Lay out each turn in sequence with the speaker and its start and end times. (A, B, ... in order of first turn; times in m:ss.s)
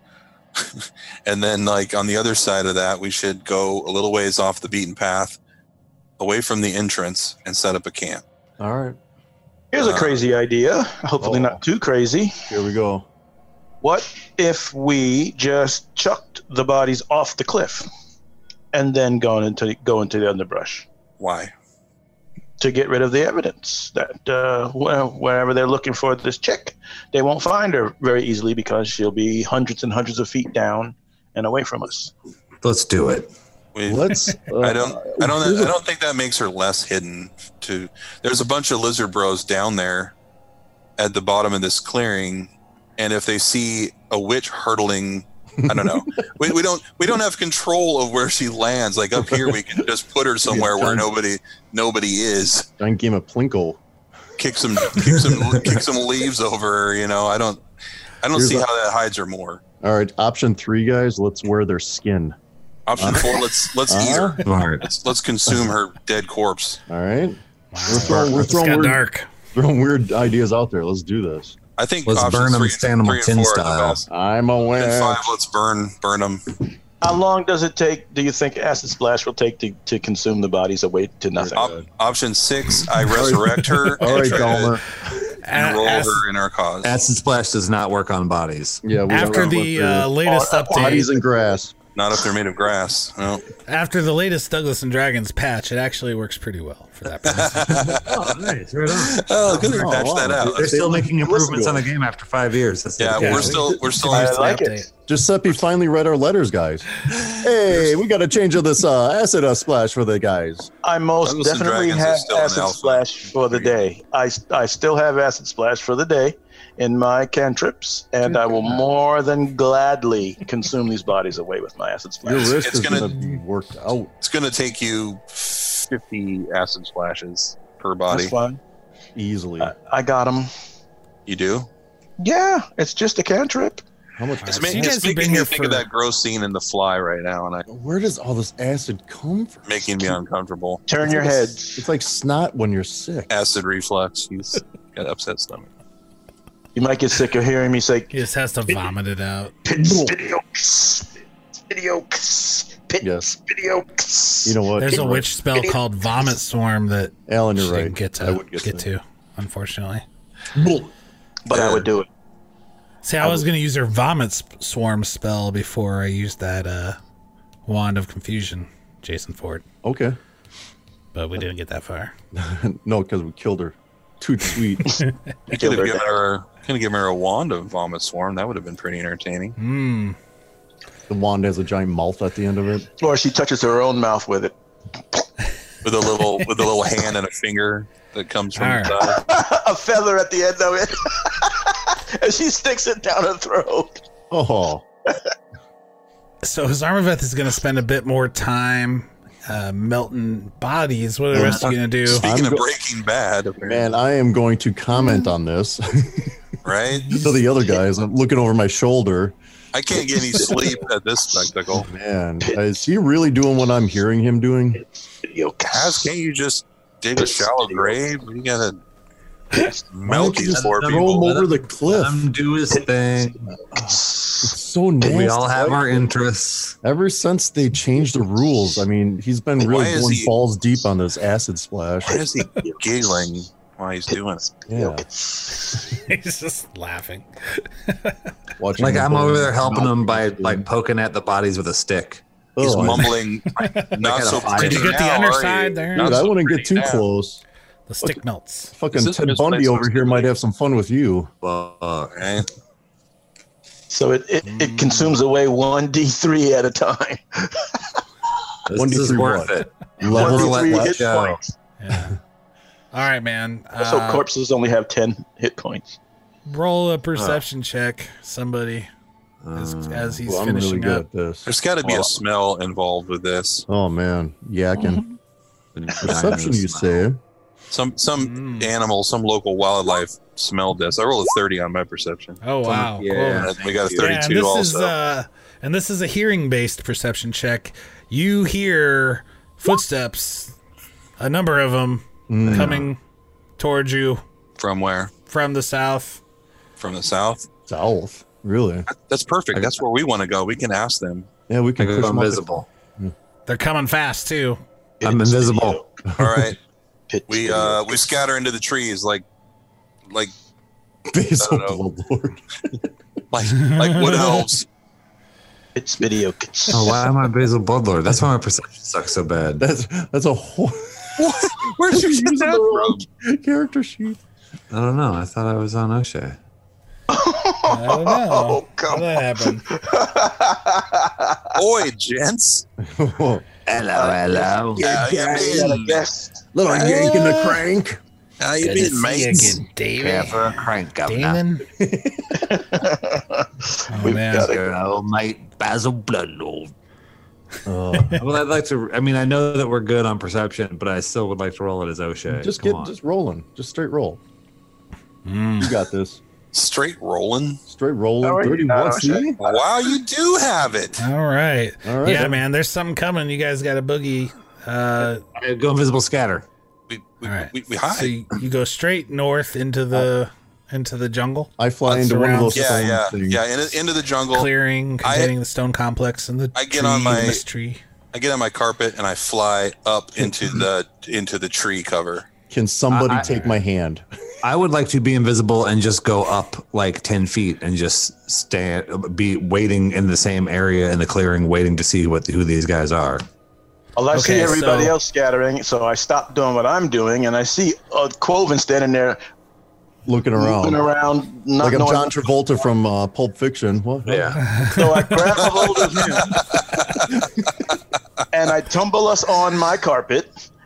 0:00.6-0:05.4 A
0:06.2-0:08.2 A
0:08.6-0:09.0 B
0:09.7-0:12.3 C
0:09.8-0:10.2 A
0:11.2-0:11.6 B
0:12.5-0:13.1 B
0:13.8-0:17.9 C
0:18.7-0:20.9 C
0:21.2-0:21.5 A
0:22.6-0:32.1 C
0:32.6-0:33.3 D
0:33.8-0:40.1 A
0:33.8-0:35.8 B
0:41.0-0:52.7 A
0:45.6-0:46.0 B
0:49.2-0:49.6 B
0:50.4-0:51.1 B
0:52.8-0:53.8 B
0:54.4-0:57.6 A
0:58.2-0:59.6 A
0:58.3-0:58.7 B
0:59.8-1:02.4 B
1:02.9-1:06.8 A
1:03.0-1:04.4 B
1:04.4-1:04.9 D
1:06.9-1:09.0 B
1:07.7-1:09.3 E
1:09.5-1:11.6 B
1:11.8-1:14.1 A
1:12.1-1:14.0 D
1:14.1-1:15.3 B
1:14.8-1:16.4 A
1:17.0-1:21.7 C
1:21.4-1:21.9 B
1:21.6-1:24.8 A
1:23.0-1:24.8 B
1:24.1-1:24.6 E
1:25.3-1:26.2 E
1:25.5-1:27.0 A
1:26.8-1:28.8 D
1:28.8-1:30.1 B
1:29.1-1:31.1 E
1:30.2-1:31.3 C
1:30.7-1:31.7 B
1:32.0-1:33.5 A
1:33.7-1:37.9 E
1:37.3-1:38.1 A
1:37.8-1:39.2 D
1:39.0-1:40.9 A
1:39.5-1:41.9 B
1:40.5-1:43.7 D
1:43.0-1:44.4 A
1:43.2-1:44.9 E
1:43.7-1:44.9 C
1:45.1-1:50.7 B
1:50.8-2:02.6 C
1:51.2-1:53.8 A
1:58.3-1:58.8 B
2:02.2-2:04.1 B
2:02.6-2:03.1 A
2:04.2-2:08.4 A
2:08.1-2:08.6 C
2:09.2-2:09.7 B
2:09.6-2:10.5 C
2:11.3-2:11.7 A
2:12.2-2:13.8 C
2:14.2-2:15.0 B
2:14.4-2:15.9 E
2:14.5-2:17.6 A
2:17.7-2:20.2 B
2:19.7-2:20.8 A
2:20.9-2:21.8 C
2:21.0-2:23.3 B
2:23.3-2:25.7 A
2:26.8-2:28.1 C
2:28.1-2:29.6 E
2:29.6-2:36.3 C
2:29.8-2:30.1 B
2:33.0-2:33.3 B
2:34.4-2:35.2 B
2:34.8-2:40.0 E
2:37.3-2:38.9 B
2:41.5-2:42.1 C
2:41.5-2:41.8 A
2:43.0-2:47.0 E
2:47.7-2:49.6 E
2:49.8-2:50.2 B
2:51.1-2:52.1 E
2:52.3-2:55.0 B
2:55.5-2:56.1 C
2:55.5-2:59.6 A
2:59.6-3:00.2 E
3:01.1-3:02.9 B
3:03.0-3:04.6 C
3:05.8-3:09.2 A
3:08.6-3:09.0 E
3:09.1-3:14.0 C
3:14.3-3:14.8 B
3:16.4-3:22.3 E
3:21.3-3:22.7 B
3:21.4-3:21.7 D
3:22.1-3:23.9 A
3:23.6-3:26.4 B
3:26.6-3:27.2 A
3:27.1-3:29.4 B
3:29.7-3:31.9 A
3:30.0-3:31.4 C
3:31.7-3:34.8 B
3:35.2-3:36.1 C
3:35.7-3:38.8 A
3:37.2-3:38.0 C
3:39.5-3:39.9 C
3:39.9-3:41.3 A
3:40.1-3:42.2 B
3:40.2-3:43.5 D
3:43.6-3:44.6 C
3:43.8-3:46.1 B
3:45.1-3:46.8 D
3:46.8-3:52.2 B
3:49.6-3:50.3 A
3:52.1-3:54.4 A
3:52.1-3:53.3 C
3:54.1-3:55.8 C
3:54.7-3:55.0 B
3:55.9-3:58.2 E
3:58.6-4:00.7 B
3:58.8-4:03.1 D
4:02.6-4:03.1 B
4:02.6-4:07.0 A
4:03.6-4:03.9 E
4:03.9-4:05.0 D
4:04.5-4:06.2 E
4:06.0-4:07.4 B
4:07.9-4:08.7 E
4:08.7-4:11.3 B
4:08.9-4:10.3 A
4:11.4-4:12.2 D
4:12.1-4:12.5 A
4:13.9-4:18.0 C
4:14.4-4:15.2 E
4:18.7-4:21.4 D
4:18.7-4:21.0 B
4:20.0-4:21.5 C
4:21.8-4:22.2 E
4:22.9-4:24.3 E
4:23.8-4:26.0 C
4:26.5-4:28.9 E
4:27.2-4:27.4 D
4:29.4-4:30.2 D
4:29.6-4:31.0 E
4:30.2-4:31.6 B
4:31.5-4:33.7 A
4:33.7-4:35.0 B
4:35.8-4:37.0 D
4:36.0-4:37.2 B
4:37.7-4:42.4 A
4:38.2-4:38.7 E
4:42.4-4:50.6 E
4:42.6-4:44.2 D
4:43.4-4:44.9 A
4:51.2-4:53.0 E
4:52.3-4:52.9 B
4:52.5-4:52.9 D
4:53.6-4:54.2 E
4:54.6-4:55.1 A
4:55.3-4:56.2 E
4:56.8-4:57.5 A
4:57.7-4:58.9 B
4:58.9-5:01.3 A
5:01.5-5:02.4 B
5:01.8-5:02.7 D
5:03.5-5:04.6 E
5:05.0-5:05.8 C
5:05.0-5:05.8 D
5:06.1-5:06.5 B
5:06.2-5:06.6 A
5:07.1-5:08.1 C
5:07.3-5:09.2 A
5:11.1-5:12.8 B
5:11.4-5:11.8 A
5:13.3-5:14.7 A
5:13.6-5:14.3 E
5:15.8-5:17.1 C
5:16.7-5:19.6 D
5:19.6-5:24.2 B
5:21.2-5:23.0 A
5:24.7-5:26.4 D
5:27.1-5:31.5 C
5:27.7-5:29.6 E
5:31.6-5:32.7 A
5:32.8-5:33.5 B
5:33.7-5:36.0 D
5:33.9-5:37.4 C
5:34.8-5:36.0 A
5:36.5-5:38.0 B
5:36.7-5:37.3 A
5:38.4-5:39.6 A
5:38.6-5:41.6 E
5:40.0-5:41.4 D
5:41.8-5:42.4 B
5:42.3-5:44.7 C
5:43.9-5:44.5 E
5:44.2-5:46.7 D
5:47.7-5:48.2 B
5:48.2-5:52.9 D
5:52.3-5:54.2 B
5:55.2-5:55.8 E
5:55.6-5:56.2 B
5:56.5-5:57.6 A
5:57.7-5:59.4 B
5:58.2-5:59.9 C
5:59.4-6:01.0 A
6:01.0-6:05.2 E
6:01.8-6:02.4 B
6:05.4-6:06.5 D
6:06.9-6:08.1 A
6:07.2-6:12.6 E
6:11.6-6:13.4 B
6:12.5-6:14.5 A
6:14.3-6:17.8 E
6:15.0-6:15.3 A
6:16.6-6:17.4 A
6:18.1-6:22.3 A
6:22.5-6:24.0 B
6:22.9-6:23.6 D
6:24.4-6:33.2 D
6:34.0-6:39.2 C
6:34.1-6:35.0 E
6:40.1-6:40.8 B
6:40.4-6:42.1 C
6:41.6-6:44.4 B
6:44.1-6:44.4 D
6:44.4-6:44.9 E
6:44.7-6:46.4 C
6:45.5-6:46.9 A
6:48.3-6:50.3 C